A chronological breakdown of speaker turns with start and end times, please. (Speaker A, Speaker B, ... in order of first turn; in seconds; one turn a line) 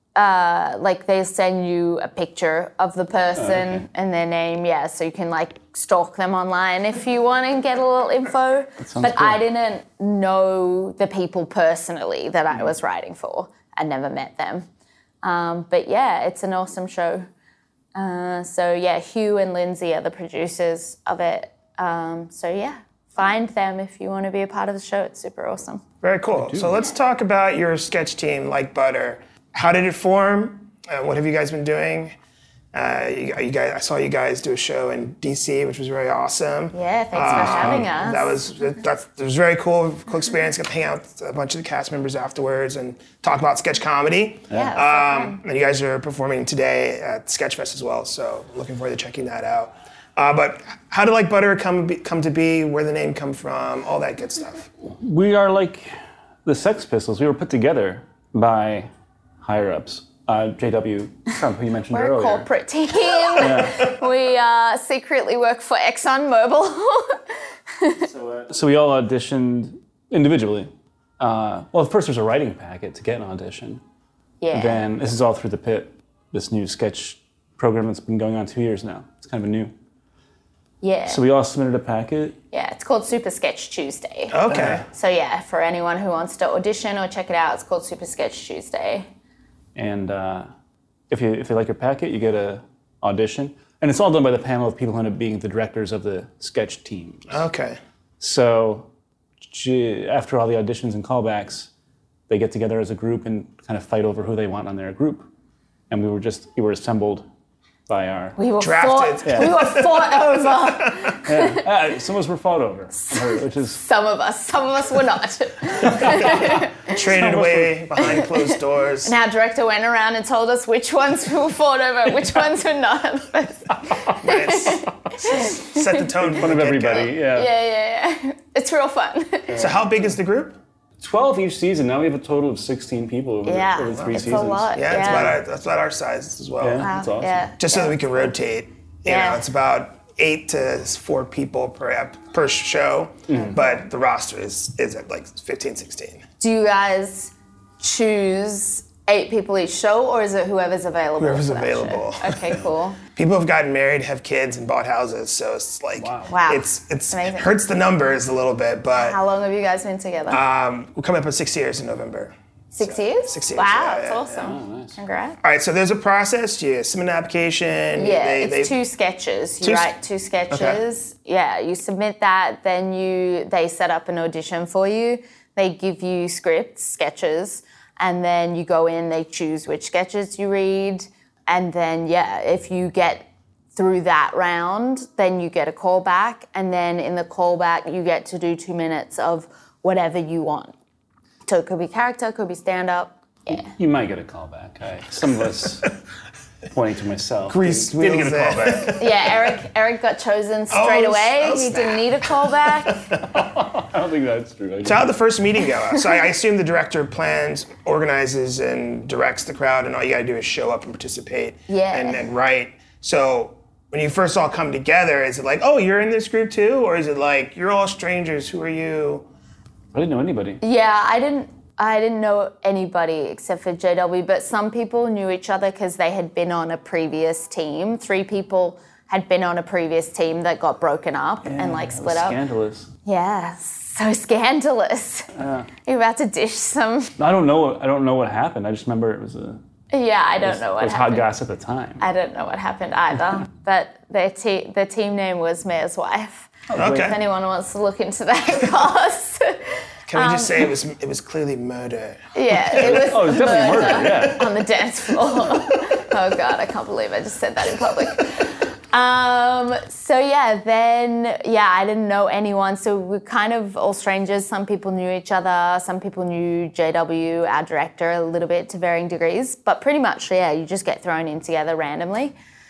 Speaker A: 0.1-14.7
Speaker B: 3.4-3.8
Speaker B: 8.8-9.4
Speaker A: 15.2-17.3
Speaker A: 17.9-25.8
Speaker C: 26.0-32.1
Speaker B: 26.4-26.6
Speaker C: 32.7-54.7
Speaker A: 36.7-38.4
Speaker B: 37.2-37.9
Speaker A: 44.5-45.4
Speaker B: 54.8-58.9
Speaker B: 59.4-62.5
Speaker A: 61.9-67.2
Speaker B: 63.4-63.9
Speaker A: 67.8-68.1
Speaker B: 68.0-73.8
Speaker A: 74.4-74.8
Speaker B: 74.5-79.7
Speaker A: 80.8-81.2
Speaker B: 81.1-82.3
Speaker A: 82.5-84.4
Speaker C: 84.3-84.8
Speaker B: 84.5-84.8
Speaker A: 84.9-89.1
Speaker B: 89.8-90.5
Speaker B: 91.1-97.4
Speaker C: 97.3-97.8
Speaker B: 98.2-98.9
Speaker B: 99.4-101.7
Speaker B: 102.3-105.3
Speaker B: 105.9-107.3
Speaker B: 107.9-108.4
Speaker A: 108.4-111.6
Speaker C: 108.6-111.2
Speaker B: 109.2-109.5
Speaker B: 111.2-113.8
Speaker A: 113.0-116.9
Speaker B: 115.8-118.0
Speaker C: 116.1-119.1
Speaker A: 119.0-126.0
Speaker C: 124.2-127.1
Speaker B: 126.2-127.5
Speaker A: 127.3-129.6
Speaker C: 129.5-130.6
Speaker B: 131.0-135.3
Speaker A: 133.4-135.4
Speaker C: 134.0-136.9
Speaker B: 136.6-137.4
Speaker A: 136.8-138.0
Speaker C: 137.6-146.2
Speaker A: 139.1-139.4
Speaker B: 143.3-143.6
Speaker A: 146.4-153.0
Speaker C: 151.2-152.6
Speaker C: 153.1-159.2
Speaker B: 155.9-156.3
Speaker A: 156.3-157.5
Speaker A: 158.9-160.4
Speaker C: 160.3-164.5
Speaker A: 162.7-165.4
Speaker B: 164.4-165.0
Speaker C: 165.4-168.7
Speaker A: 167.9-190.7
Speaker C: 169.6-169.9
Speaker C: 170.5-170.8
Speaker A: 191.4-193.7
Speaker B: 193.5-195.9
Speaker B: 196.7-199.0
Speaker C: 197.4-199.2
Speaker A: 199.0-203.0
Speaker C: 200.7-203.2
Speaker B: 203.3-205.1
Speaker C: 204.8-219.3
Speaker A: 211.7-212.3
Speaker B: 219.9-220.6
Speaker A: 220.6-232.4
Speaker B: 231.4-232.9
Speaker A: 233.0-235.3
Speaker B: 235.3-235.7
Speaker A: 235.8-237.1
Speaker B: 237.2-239.6
Speaker A: 239.9-241.3
Speaker B: 240.4-242.0
Speaker A: 242.0-249.6
Speaker B: 246.7-247.2
Speaker C: 246.7-247.2
Speaker C: 250.1-253.1
Speaker A: 250.1-250.7
Speaker A: 252.3-272.3
Speaker B: 252.7-254.5